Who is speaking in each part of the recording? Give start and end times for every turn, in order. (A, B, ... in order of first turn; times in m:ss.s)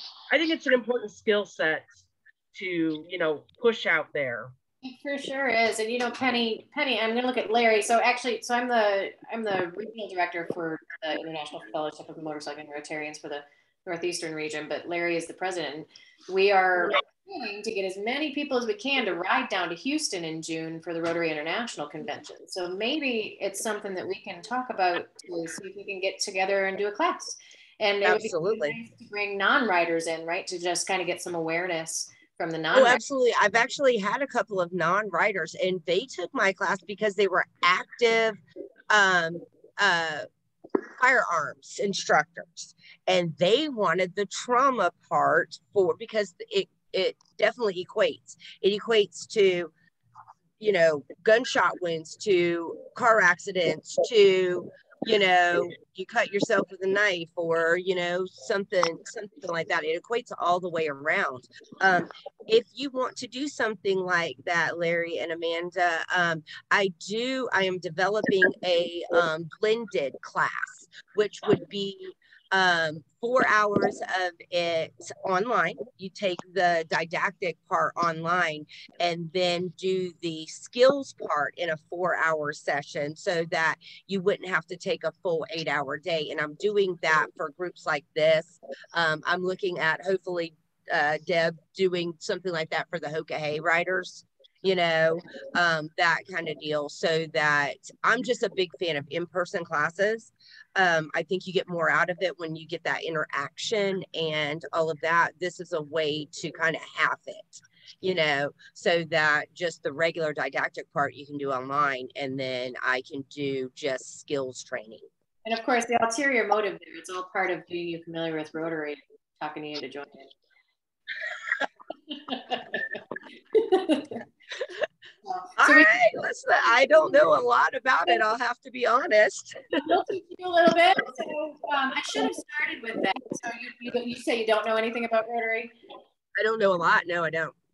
0:00.3-0:04.5 A
0:04.8-0:33.0 B
0:28.0-0:28.8 C
0:32.7-0:38.4 C
0:38.9-0:40.3 C
0:40.9-0:49.7 C
0:50.6-1:55.1 C
1:55.4-2:00.3 B
2:02.1-2:03.0 B
2:03.5-2:04.2 B
2:05.2-2:06.0 B
2:05.6-2:09.6 C
2:09.7-2:15.8 B
2:16.4-2:17.6 C